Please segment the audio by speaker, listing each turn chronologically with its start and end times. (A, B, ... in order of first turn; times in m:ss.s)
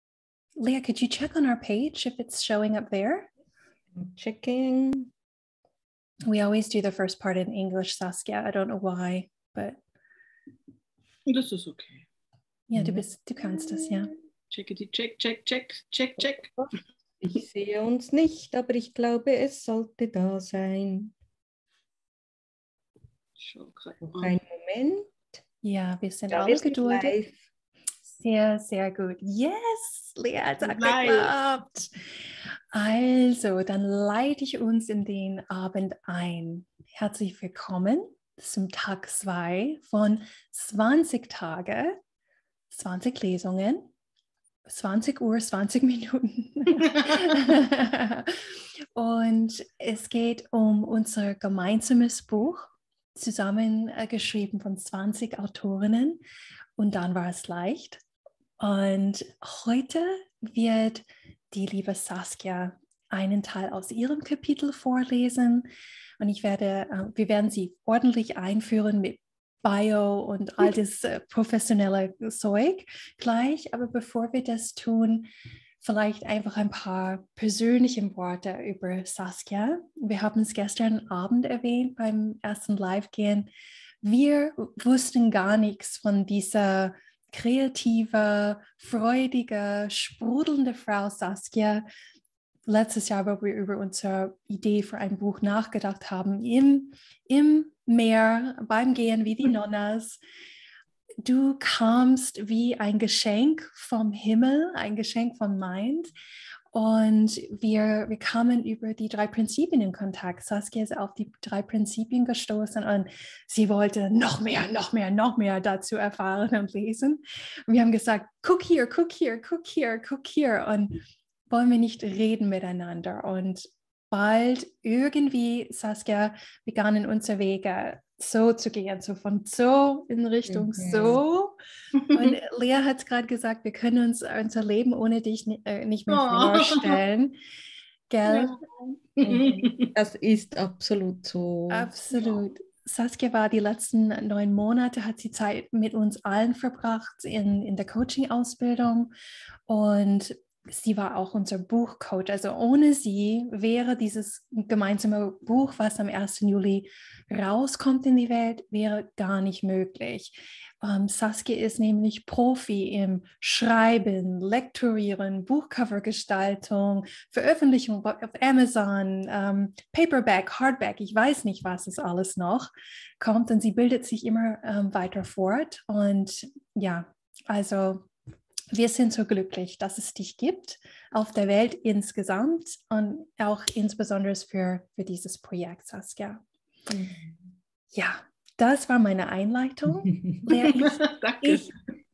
0:00.6-0:03.3 A
0:03.9-0:05.1 B
0:06.2-0:09.8 A
0:11.3-0:12.0 C
0:12.7-0:14.1 A
0:12.7-0:13.9 B
0:14.5-0:16.5 C
0:16.2-0:21.1 B
0:23.4-0:24.3 C
0:24.0-0:25.2 B
0:25.6-0:27.2 A
0:26.3-0:27.4 B
0:28.0-0:31.9 A
0:30.6-0:31.3 C
0:32.7-0:42.0 A
0:42.7-0:43.9 A
0:44.7-0:48.3 A
0:46.8-0:47.2 C
0:48.9-0:56.2 A
0:56.8-0:58.0 A
0:58.6-1:05.7 A
1:06.2-1:15.3 A
1:15.8-1:23.5 A
1:24.0-1:31.8 A
1:32.7-1:40.2 A
1:41.2-1:46.1 A
1:46.7-2:11.6 A
2:10.5-2:11.2 B
2:12.0-2:12.3 C
2:12.1-2:17.4 A
2:16.1-2:17.0 C
2:18.1-2:18.6 A
2:18.2-2:19.9 C
2:19.2-2:21.9 B
2:19.3-2:19.7 A
2:21.7-2:29.1 A
2:22.1-2:22.4 C
2:29.7-2:52.7 A
2:53.2-2:58.1 A
2:58.7-3:06.4 A
3:06.9-3:07.5 B
3:07.9-3:11.7 A
3:10.6-3:11.7 C